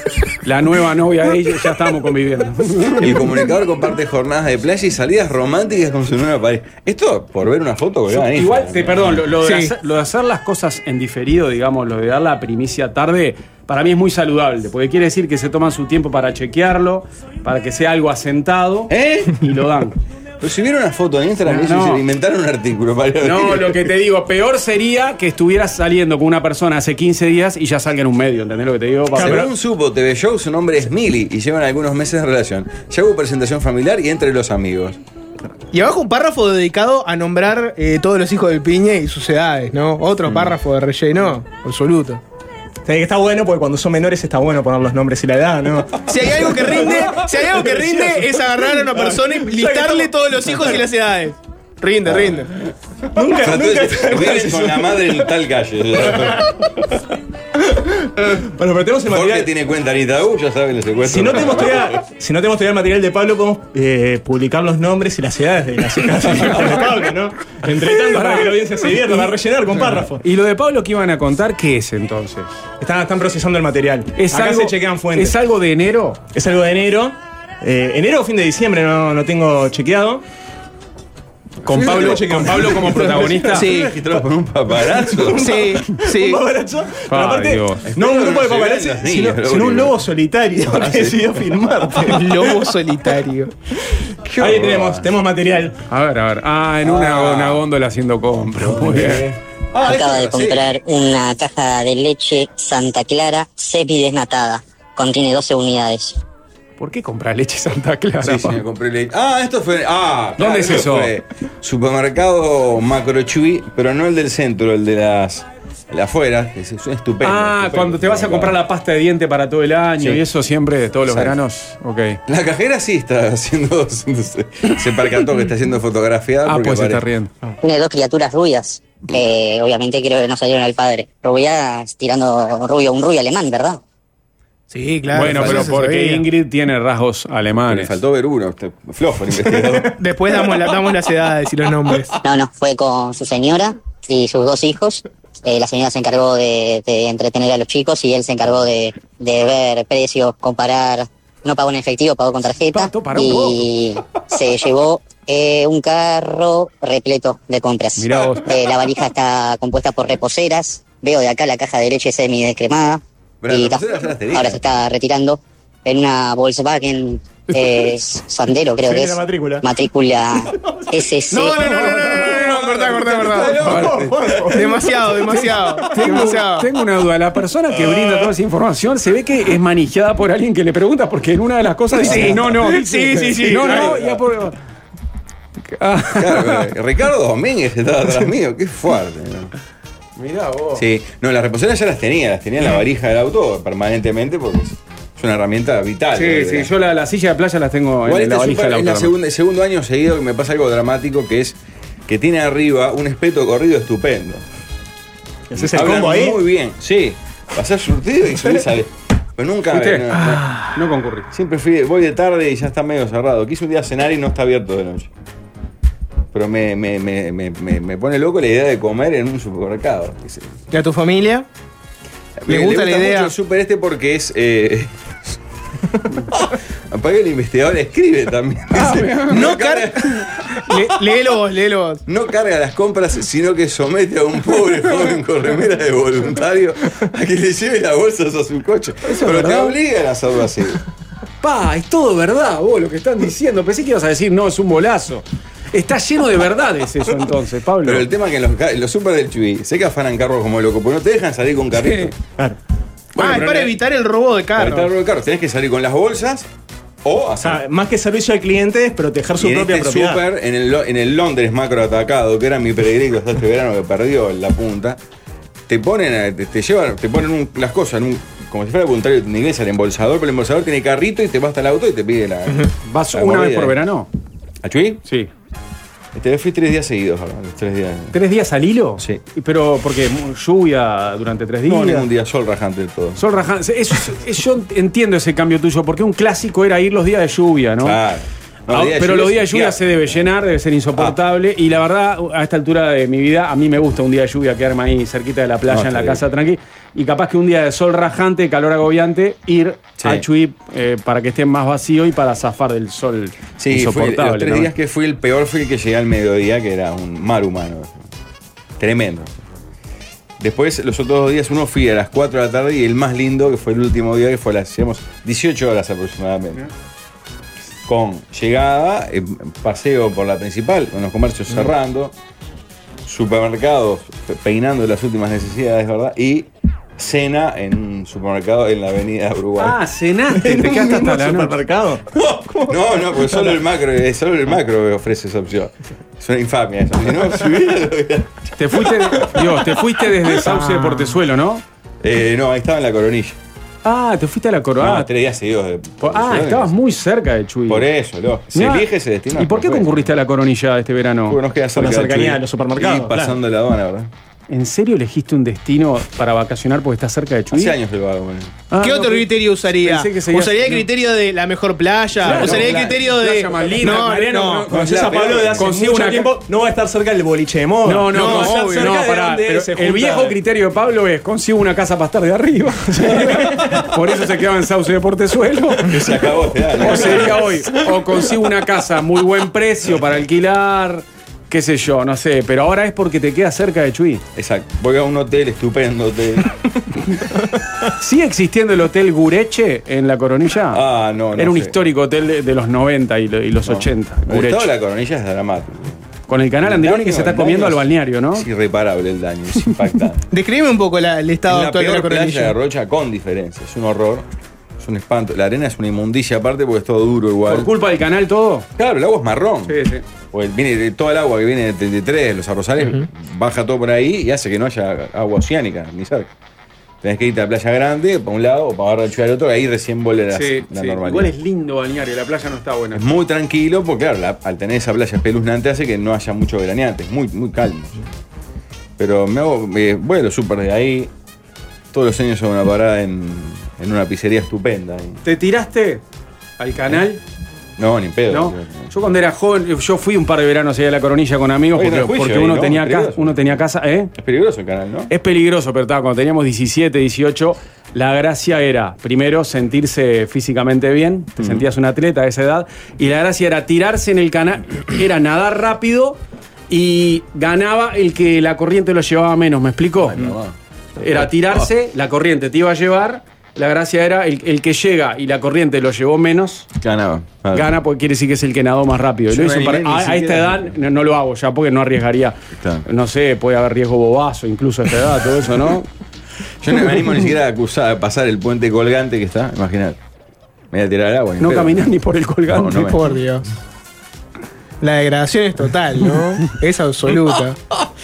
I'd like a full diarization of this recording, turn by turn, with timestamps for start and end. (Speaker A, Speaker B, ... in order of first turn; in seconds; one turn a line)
Speaker A: 0.4-3.2
Speaker B: 3.0-9.3
Speaker A: 8.1-20.0
Speaker C: 9.4-9.7
Speaker B: 18.9-19.4
Speaker B: 20.4-24.0
Speaker A: 21.5-22.0
Speaker A: 23.2-29.5
Speaker B: 29.1-35.0
Speaker D: 29.2-29.5
Speaker C: 35.7-42.2
Speaker B: 40.2-40.6
Speaker D: 42.9-50.8
Speaker C: 46.1-52.5
Speaker B: 52.1-52.7
Speaker D: 53.1-55.3
Speaker B: 53.3-56.8
Speaker D: 57.6-59.5
Speaker B: 59.1-62.0
Speaker D: 61.1-70.2
Speaker A: 66.3-66.9
Speaker A: 68.1-72.5
Speaker D: 72.8-75.4
Speaker A: 74.2-76.2
Speaker D: 76.3-80.2
Speaker B: 81.6-85.7
Speaker A: 81.7-83.7
Speaker D: 81.7-83.6
Speaker C: 83.5-84.0
Speaker D: 85.0-92.6
Speaker C: 85.4-86.4
Speaker A: 87.1-87.9
Speaker B: 87.8-90.0
Speaker B: 90.7-91.3
Speaker C: 92.0-93.5
Speaker D: 94.3-95.8
Speaker B: 94.4-95.1
Speaker A: 95.9-99.2
Speaker B: 96.8-97.7
Speaker B: 98.3-100.7
Speaker E: 99.8-106.2
Speaker A: 106.8-108.6
Speaker B: 108.2-118.6
Speaker A: 110.4-111.1
Speaker A: 117.2-122.2
Speaker B: 120.0-120.2
Speaker B: 121.0-121.4
Speaker B: 122.3-127.0
Speaker A: 126.5-127.3
Speaker E: 127.6-133.8
Speaker C: 134.7-136.3
Speaker B: 135.1-135.8
Speaker A: 135.1-138.0
Speaker B: 137.7-139.9
Speaker C: 140.0-142.2
Speaker E: 142.2-163.8
Speaker A: 152.7-153.7
Speaker A: 158.0-158.5
Speaker B: 163.4-164.6
Speaker E: 164.3-171.8
Speaker D: 168.8-169.7
Speaker C: 171.3-173.6
Speaker A: 171.7-172.3
Speaker B: 171.8-174.8
Speaker D: 173.4-174.9
Speaker A: 173.6-174.0
Speaker C: 174.5-176.7
Speaker A: 175.3-184.6
Speaker B: 177.7-178.3
Speaker C: 181.9-184.0
Speaker B: 182.0-182.7
Speaker B: 183.5-184.2
Speaker A: 185.7-186.7
Speaker B: 186.2-189.5
Speaker A: 190.2-190.8
Speaker B: 190.8-196.7
Speaker A: 196.1-199.1
Speaker B: 198.1-204.4
Speaker D: 205.5-206.4
Speaker B: 205.6-210.6
Speaker A: 209.7-211.3
Speaker B: 211.3-215.1
Speaker B: 216.3-220.6
Speaker C: 220.7-221.5
Speaker B: 222.4-225.4
Speaker C: 222.5-223.3
Speaker B: 226.3-231.2
Speaker A: 228.7-229.4
Speaker C: 229.3-232.0
Speaker B: 232.1-240.8
Speaker A: 239.1-239.8
Speaker A: 241.4-248.1
Speaker B: 247.8-252.1
Speaker A: 251.8-252.1
Speaker A: 253.2-253.8
Speaker C: 253.2-254.9
Speaker B: 254.6-256.5
Speaker B: 257.0-257.6
Speaker D: 257.4-260.2
Speaker B: 259.4-265.0
Speaker B: 265.7-273.8
Speaker A: 272.9-274.1
Speaker B: 274.6-275.0
Speaker B: 276.1-278.2
Speaker A: 278.1-282.1
Speaker B: 281.7-283.2
Speaker A: 283.2-288.0
Speaker B: 287.8-290.3
Speaker A: 288.7-304.7
Speaker B: 295.7-296.2
Speaker B: 300.0-300.2
Speaker B: 303.6-308.0
Speaker B: 308.8-309.4
Speaker B: 310.4-316.7
Speaker B: 317.9-322.1
Speaker B: 323.1-329.8
Speaker A: 329.6-331.6
Speaker D: 330.3-333.6
Speaker B: 332.2-339.7
Speaker A: 338.6-341.6
Speaker D: 340.4-341.2
Speaker B: 342.0-343.4
Speaker A: 343.8-345.1
Speaker B: 344.8-346.8
Speaker A: 346.0-347.9
Speaker B: 347.7-350.1
Speaker A: 348.5-351.4
Speaker B: 351.3-354.1
Speaker D: 351.8-353.4
Speaker A: 354.5-357.8
Speaker B: 357.5-358.6
Speaker A: 358.7-360.9
Speaker C: 358.8-364.7
Speaker A: 362.2-366.3
Speaker B: 362.3-362.9
Speaker B: 364.7-365.8
Speaker D: 364.7-370.4
Speaker A: 367.9-376.0
Speaker C: 368.1-369.0
Speaker B: 373.2-373.9
Speaker B: 375.8-377.7
Speaker A: 376.8-384.2
Speaker B: 384.4-386.5
Speaker A: 387.9-390.8
Speaker B: 390.7-391.8
Speaker A: 391.4-394.7
Speaker B: 393.6-396.0
Speaker A: 396.3-398.5
Speaker B: 396.6-400.3
Speaker C: 400.3-402.5
Speaker B: 401.5-404.3
Speaker B: 404.8-407.7
Speaker A: 407.5-408.7
Speaker B: 408.8-409.8
Speaker A: 409.7-410.0
Speaker B: 410.3-416.3
Speaker B: 417.0-421.3
Speaker A: 420.3-423.1
Speaker B: 422.9-428.0
Speaker B: 429.0-431.1
Speaker B: 431.9-435.2
Speaker A: 435.2-436.0
Speaker A: 436.6-437.2
Speaker B: 437.8-438.9
Speaker A: 438.3-444.1
Speaker B: 441.7-443.6
Speaker B: 444.1-445.1
Speaker A: 445.1-456.2
Speaker B: 451.4-451.7
Speaker A: 456.7-460.3
Speaker B: 460.0-460.6
Speaker A: 461.0-466.7
Speaker B: 461.1-461.7
Speaker B: 466.8-467.7
Speaker A: 467.5-475.9
Speaker B: 469.3-470.8
Speaker B: 472.5-472.9
Speaker B: 476.6-480.0
Speaker B: 480.7-481.9
Speaker A: 481.4-483.0
Speaker B: 482.5-483.2
Speaker C: 482.8-483.5
Speaker C: 484.8-487.6